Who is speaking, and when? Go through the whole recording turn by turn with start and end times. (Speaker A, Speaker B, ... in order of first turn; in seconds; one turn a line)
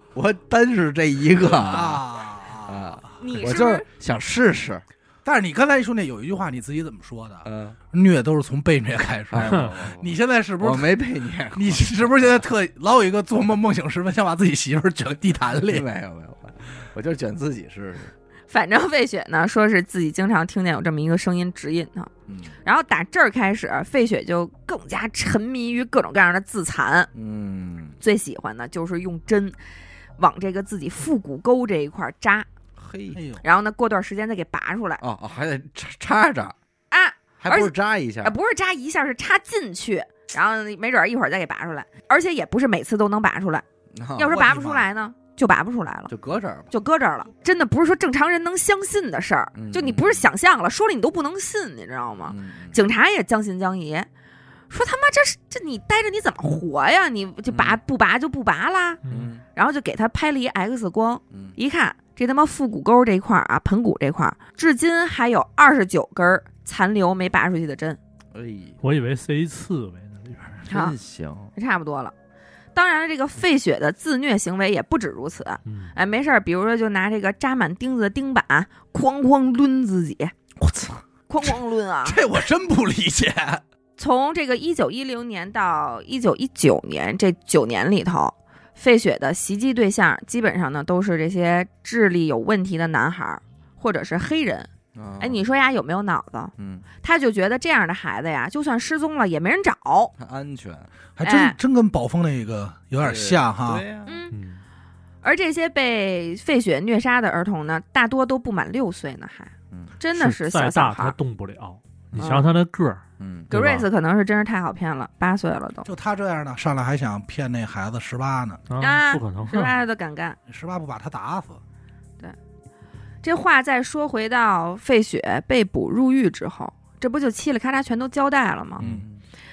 Speaker A: 0.1-2.0
Speaker B: 1.4-3.1
Speaker A: 2.6-4.8
Speaker C: 3.2-3.9
Speaker B: 5.2-10.9
Speaker A: 7.4-7.8
Speaker A: 9.3-12.4
Speaker B: 11.5-15.9
Speaker A: 15.6-18.1
Speaker C: 18.5-22.1
Speaker A: 22.3-22.6
Speaker C: 22.6-27.1
Speaker A: 27.1-28.0
Speaker C: 28.0-29.6
Speaker C: 30.2-32.5
Speaker A: 32.8-33.2
Speaker B: 33.1-33.4
Speaker C: 33.4-35.0
Speaker A: 35.0-36.6
Speaker C: 36.9-43.6
Speaker A: 37.4-38.4
Speaker A: 43.9-44.5
Speaker C: 44.2-46.1
Speaker B: 44.3-44.9
Speaker A: 46.1-46.7
Speaker C: 46.7-54.1
Speaker A: 49.5-50.3
Speaker A: 52.3-52.8
Speaker C: 54.7-59.0
Speaker A: 57.5-57.8
Speaker D: 59.0-59.3
Speaker A: 59.1-59.4
Speaker C: 59.5-68.0
Speaker A: 61.3-61.6
Speaker A: 68.3-68.8
Speaker D: 68.8-70.7
Speaker A: 70.7-71.5
Speaker C: 70.7-71.0
Speaker C: 71.5-72.1
Speaker C: 72.8-80.3
Speaker D: 75.7-75.9
Speaker A: 80.6-81.0
Speaker C: 81.3-82.2
Speaker B: 82.0-83.6
Speaker C: 84.0-100.1
Speaker A: 94.9-95.4
Speaker A: 96.6-96.8
Speaker A: 100.2-100.9
Speaker B: 101.2-103.8
Speaker C: 101.2-101.6
Speaker A: 103.0-104.2
Speaker C: 104.1-104.3
Speaker D: 104.3-104.6
Speaker C: 105.2-111.2
Speaker A: 109.7-110.0
Speaker D: 110.2-113.9
Speaker C: 112.2-112.5
Speaker A: 113.2-113.5
Speaker C: 113.5-115.9
Speaker B: 115.9-118.6
Speaker D: 118.7-119.8
Speaker C: 118.8-120.4
Speaker B: 120.5-121.6
Speaker C: 123.2-128.8
Speaker A: 128.8-129.2
Speaker B: 128.8-129.1